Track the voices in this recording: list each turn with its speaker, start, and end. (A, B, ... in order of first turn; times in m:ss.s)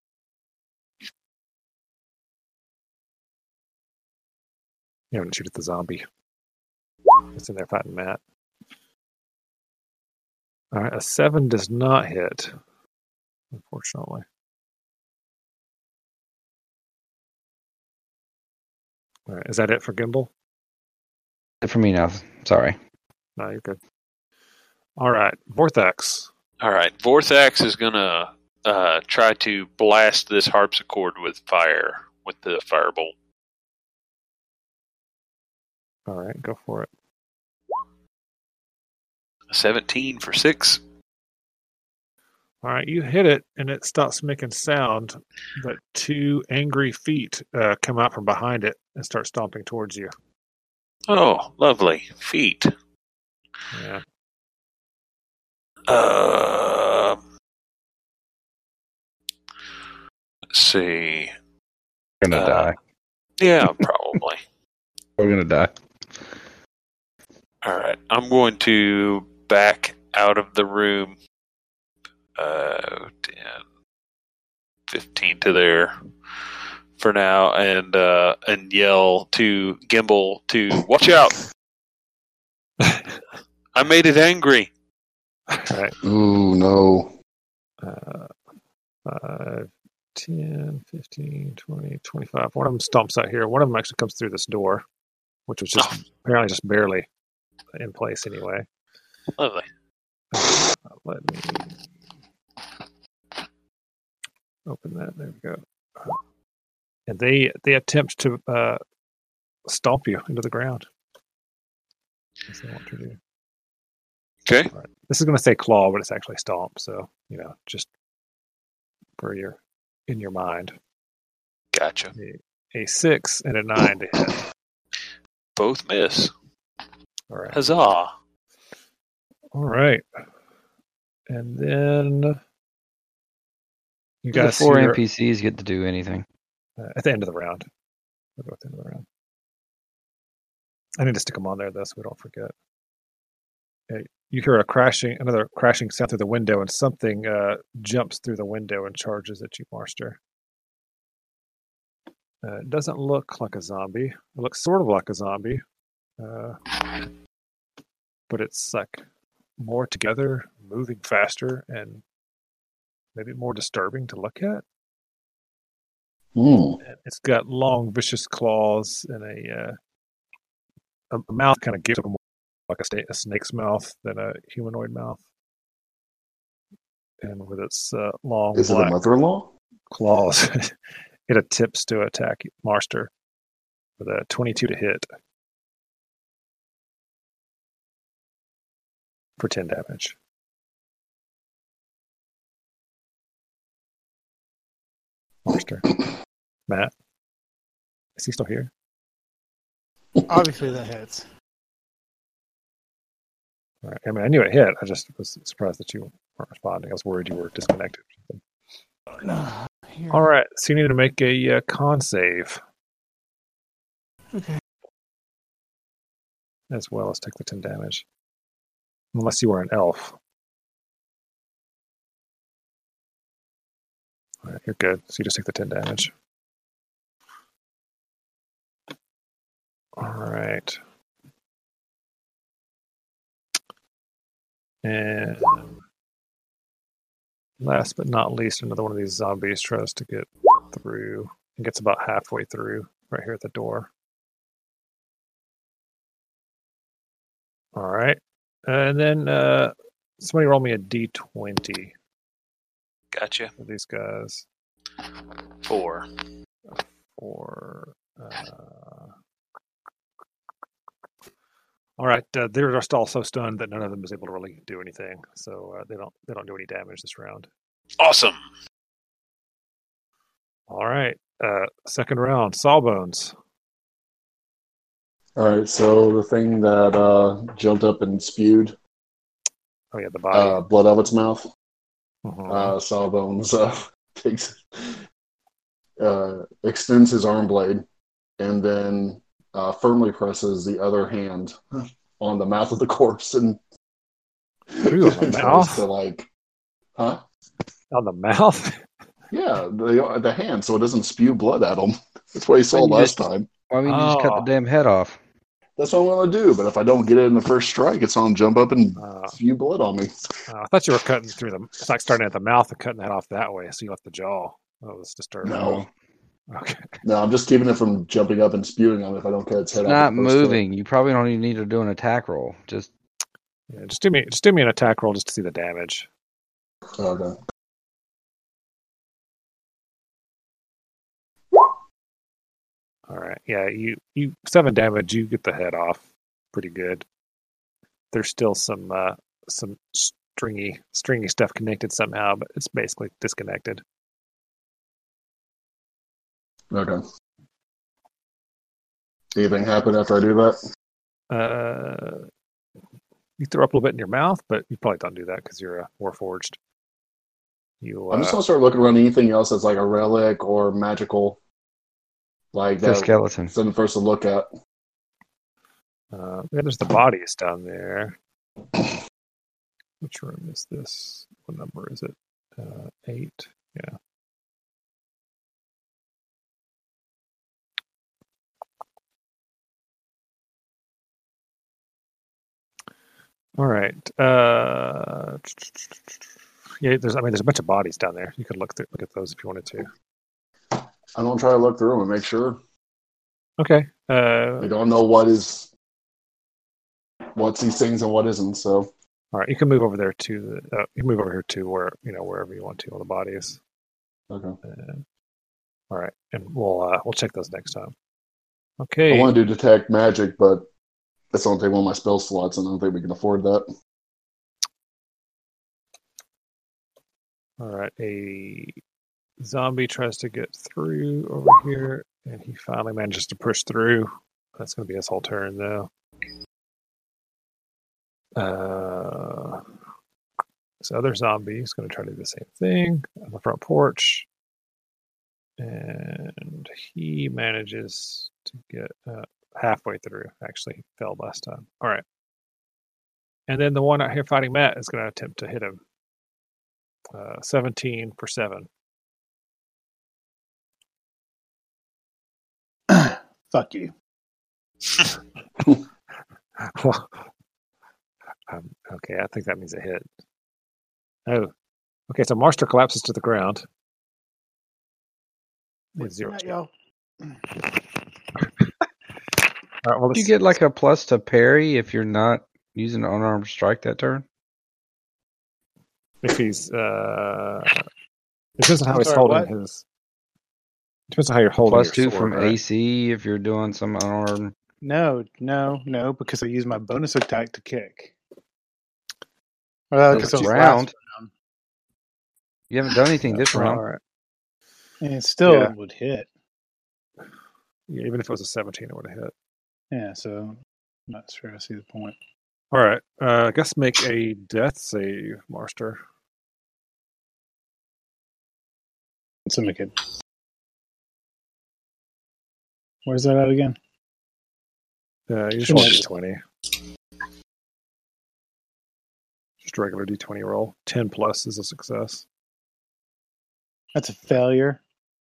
0:05.1-0:06.0 A
0:07.3-0:08.2 A
0:10.7-0:12.6 A
0:13.5-0:14.2 A
0:19.3-0:20.3 A
0:21.6-0:22.8 B
0:23.4-0:23.8 A
0:25.0-0:26.3 A
0:26.6-0:33.1 C
0:36.1-0:36.9 A
0:39.5-0:40.8 C
0:42.6-0:50.1 A
0:51.1-0:52.7 C
0:53.7-0:54.0 A
0:55.9-0:57.2 C
1:00.5-1:01.3 C
1:02.2-1:02.8 B
1:02.3-1:02.7 C
1:03.4-1:04.4 C
1:05.2-1:05.7 B
1:07.6-1:11.2 C
1:12.4-1:13.6 C
1:14.9-1:15.9 C
1:17.0-1:21.4 C
1:22.8-1:23.2 A
1:23.8-1:24.7 C
1:25.5-1:26.0 A
1:26.0-1:27.1 D
1:27.8-1:28.3 A
1:29.1-1:34.8 A
1:35.5-1:37.1 A
1:37.8-1:38.6 A
1:39.4-1:39.7 C
1:40.3-1:41.8 A
1:44.7-1:46.2 A
1:47.1-1:48.8 A
1:49.7-1:50.8 A
1:52.5-1:53.2 A
1:54.5-1:54.7 C
1:54.7-1:57.9 A
1:59.2-2:00.7 A
2:01.7-2:02.1 C
2:02.2-2:04.4 A
2:05.6-2:06.3 C
2:07.3-2:07.6 A
2:07.5-2:08.1 C
2:09.5-2:10.0 A
2:11.3-2:12.4 A
2:14.2-2:15.0 A
2:14.3-2:16.3 B
2:16.8-2:17.7 A
2:18.4-2:19.0 A
2:21.0-2:22.5 A
2:23.9-2:30.2 A
2:32.4-2:35.6 A
2:36.2-2:36.7 A
2:38.3-2:39.0 A
2:39.6-2:42.0 A
2:43.2-2:44.6 A
2:46.4-2:46.8 D
2:46.8-2:49.8 A
2:51.1-2:55.2 A
2:57.2-2:59.0 A
2:58.6-2:59.5 D
2:59.9-3:00.7 A
3:01.3-3:03.1 A
3:04.0-3:05.1 A
3:09.4-3:10.2 A
3:15.4-3:16.0 A
3:18.2-3:18.7 A
3:20.3-3:21.3 E
3:23.8-3:28.4 A
3:29.2-3:30.2 E
3:30.1-3:32.6 A
3:36.7-3:38.0 A
3:39.1-3:40.2 A
3:44.4-3:46.1 A
3:50.0-3:50.8 A
3:54.8-3:55.8 A
3:57.6-4:03.9 A
4:07.8-4:11.9 A
4:13.1-4:13.5 C
4:13.6-4:14.5 A
4:15.6-4:16.1 C
4:16.8-4:19.1 A
4:22.0-4:27.5 A
4:28.0-4:28.4 C
4:30.7-4:33.4 A
4:35.4-4:38.8 D
4:39.9-4:40.6 A
4:40.3-4:41.4 D
4:42.2-4:42.8 A
4:42.5-4:45.0 D
4:46.0-4:47.8 D
4:48.4-4:53.6 D
4:54.7-4:56.3 D
4:54.8-4:55.8 A
4:57.0-4:57.2 D
4:57.9-4:58.8 A
4:59.3-5:03.5 D
5:02.7-5:05.2 B
5:03.8-5:04.5 A
5:05.8-5:10.1 D
5:09.0-5:09.4 A
5:10.5-5:15.8 A
5:15.4-5:15.9 D
5:16.5-5:17.0 A
5:17.0-5:20.6 D
5:19.8-5:22.9 B
5:23.7-5:26.1 A
5:27.0-5:27.4 D
5:33.1-5:37.0 A
5:38.1-5:43.8 A
5:46.7-5:47.0 D
5:49.4-5:50.6 D
5:51.3-5:52.3 A
5:53.4-5:56.6 A
5:57.8-5:58.4 A
5:58.1-6:01.4 D
6:02.5-6:04.5 D
6:02.8-6:03.5 B
6:06.1-6:08.2 A
6:10.0-6:14.0 A
6:23.6-6:26.2 A
6:26.8-6:29.9 A
6:31.2-6:32.6 D
6:33.6-6:34.7 A
6:34.6-6:35.7 D
6:37.4-6:38.9 D
6:39.3-6:43.6 A
6:44.3-6:44.6 D
6:44.7-6:45.0 A
6:45.9-6:47.9 A
6:48.8-6:49.3 A
6:49.1-6:50.7 D
6:51.3-6:53.7 D
6:57.6-6:58.8 A
6:59.4-7:05.9 A
7:08.4-7:09.6 A
7:10.8-7:14.3 A
7:15.6-7:22.0 A
7:23.5-7:25.8 A
7:27.1-7:28.7 A
7:32.9-7:33.9 E
7:36.6-7:37.2 A
7:38.5-7:40.0 A
7:42.1-7:43.6 A
7:46.0-7:46.5 A
7:46.0-7:46.7 E
7:49.8-7:50.4 A
7:50.1-7:54.2 B
7:56.2-7:57.8 A
7:58.6-7:59.8 A
7:58.9-7:59.5 E
8:01.1-8:02.6 A
8:01.7-8:04.5 B
8:04.8-8:08.1 E
8:09.9-8:11.3 E
8:10.1-8:10.9 B
8:10.1-8:10.5 A
8:12.7-8:13.8 B
8:13.3-8:14.0 A
8:15.0-8:16.3 E
8:15.4-8:15.7 A
8:17.9-8:19.3 A
8:19.9-8:20.6 E
8:21.1-8:22.2 E
8:22.7-8:26.0 A
8:29.5-8:30.0 E
8:33.1-8:33.8 E
8:35.3-8:36.4 A
8:35.6-8:36.0 E
8:39.6-8:42.2 A
8:44.0-8:44.8 E